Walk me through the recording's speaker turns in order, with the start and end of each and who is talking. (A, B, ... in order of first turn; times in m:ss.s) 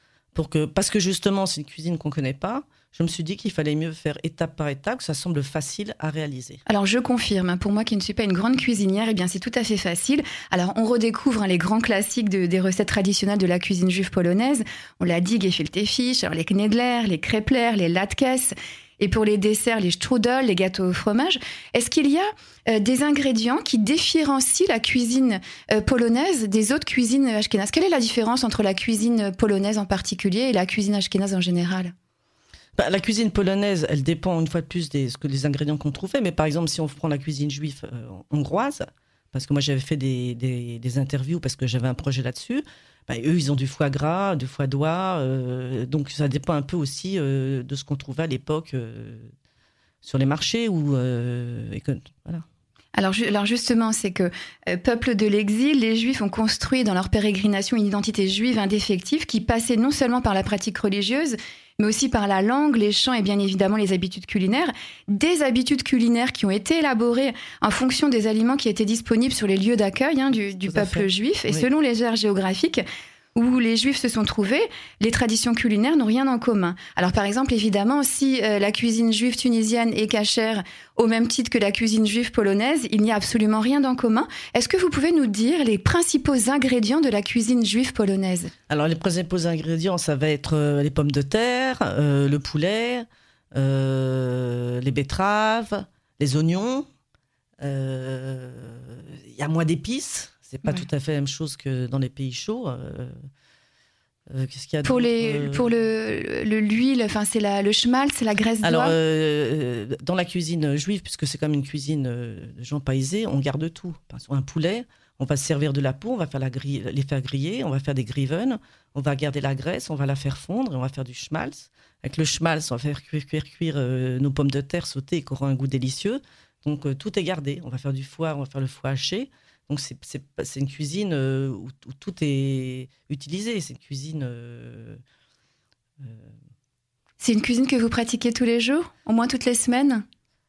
0:00.3-0:06.6 A
0:06.7-0:31.9 B
0:32.8-0:49.3 A
0:50.0-0:52.4 A
0:53.0-1:12.8 B
1:10.6-1:11.6 A
1:13.3-1:28.5 B
1:28.7-1:36.8 A
1:37.6-1:43.1 A
1:44.3-1:45.6 A
1:44.8-1:49.0 B
1:48.6-2:15.0 A
2:16.0-2:16.3 A
2:17.2-2:20.0 B